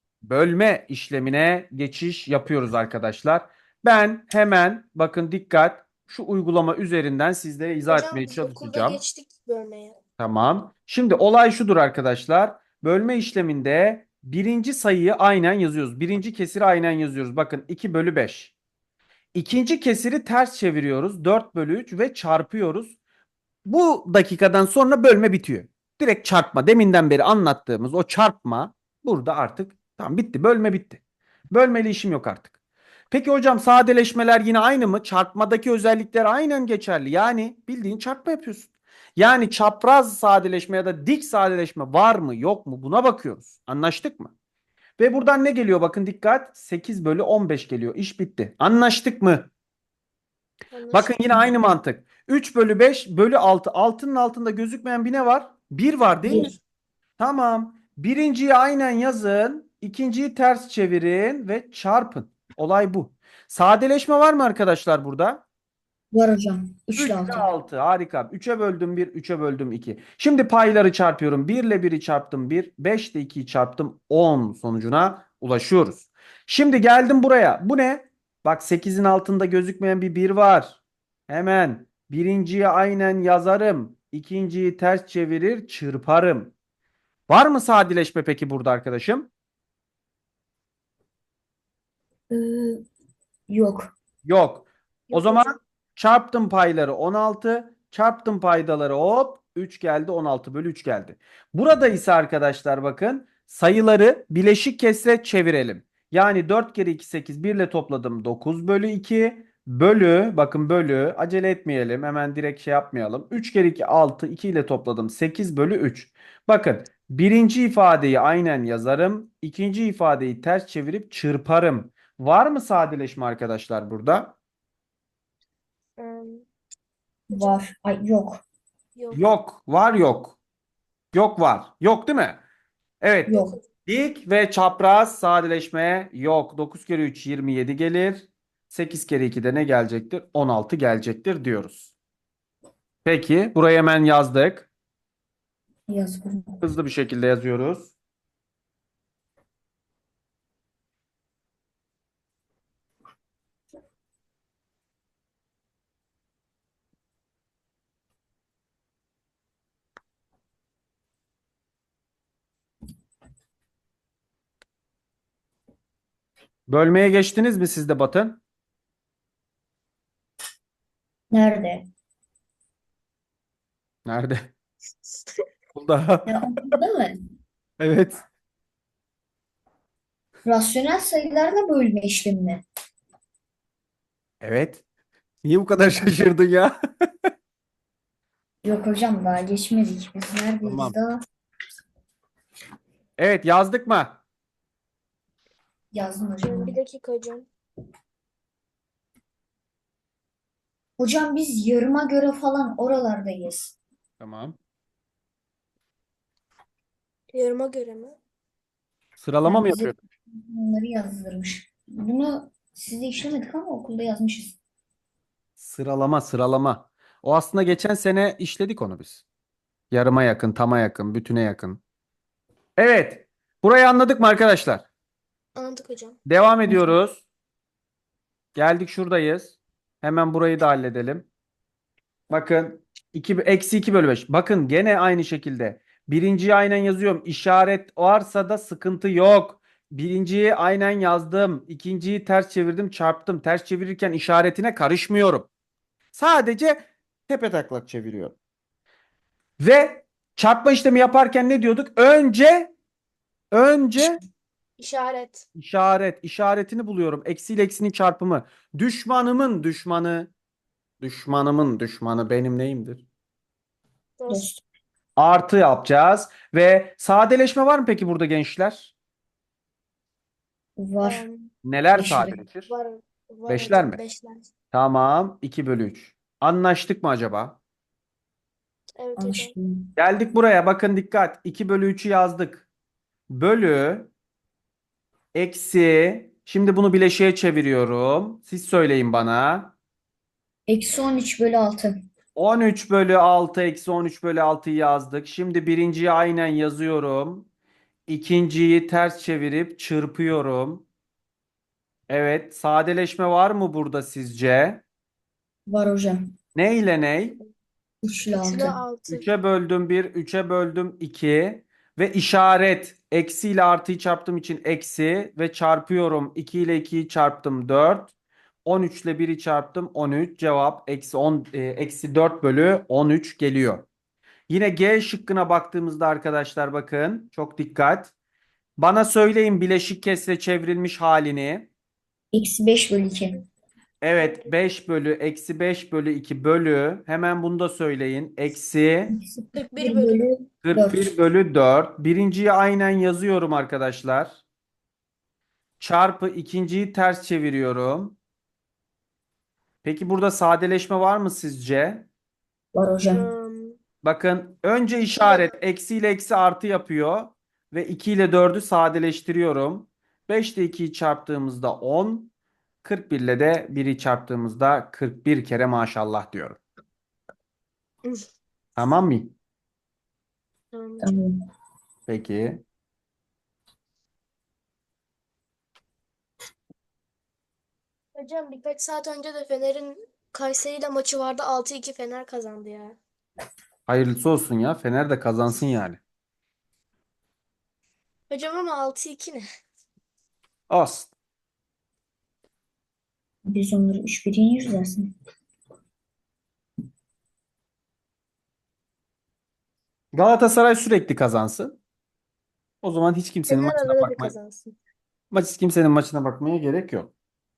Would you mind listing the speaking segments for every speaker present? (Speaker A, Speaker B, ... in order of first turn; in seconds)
Speaker A: 0.2-9.0, 10.2-18.5, 19.3-23.0, 23.6-31.0, 31.5-32.5, 33.1-44.3, 45.0-49.5, 50.9-56.5, 57.2-65.4, 67.0-86.5, 87.3-89.3, 94.2-124.3, 129.1-130.4, 131.1-132.4, 133.0-133.3, 133.9-141.9, 143.1-144.7, 146.6-147.9, 166.7-168.4, 174.1-174.5, 175.8-176.3, 177.8-178.2, 184.4-184.8, 185.4-186.8, 190.6-190.9, 193.2-194.2, 204.2-204.6, 209.2-210.0, 215.6-219.2, 219.9-221.8, 222.8-224.8, 226.3-227.2, 228.6-231.3, 232.3-245.5, 246.1-248.4, 249.6-252.7, 253.5-254.2, 255.6-260.3, 261.0-263.1, 265.2-268.9, 271.6-272.7, 273.5-274.0, 274.7-277.6, 280.0-282.7, 283.3-284.1, 285.3-289.7, 292.4-297.5, 298.1-300.9, 302.1-304.8, 306.6-307.4, 309.1-318.1, 318.6-323.9, 324.5-328.1, 328.8-331.7, 334.0-339.1, 340.6-344.4, 345.8-348.2, 349.8-352.1, 354.0-362.3, 362.8-366.6, 368.8-369.3, 372.1-372.6, 383.9-386.0, 390.7-391.1, 400.1-401.8, 402.8-404.3, 405.3-407.1
Speaker B: 7.9-10.0, 50.7-51.1, 95.1-95.5, 126.0-126.5, 127.3-127.6, 129.0-129.2, 133.3-133.6, 196.4-197.5, 207.3-208.2, 225.6-226.2, 254.8-255.4, 264.2-264.6, 271.0-271.5, 272.7-274.5, 279.0-279.5, 308.3-309.3, 334.2-334.6, 339.5-340.2, 353.1-353.8, 355.2-355.5, 370.7-371.2, 378.1-383.0, 388.3-389.4, 403.5-404.8
Speaker C: 56.3-56.5, 66.1-67.5, 92.3-92.8, 93.5-93.9, 127.3-128.4, 133.3-133.6, 145.9-146.7, 171.3-171.9, 176.3-177.2, 180.4-182.6, 188.6-191.2, 195.9-196.8, 201.0-203.8, 209.4-214.6, 226.7-226.9, 264.3-264.6, 270.8-271.2, 271.9-272.4, 279.2-279.9, 290.7-292.1, 305.7-306.3, 308.0-308.8, 332.3-333.4, 339.1-341.1, 352.7-353.3, 371.0-371.4, 393.5-395.1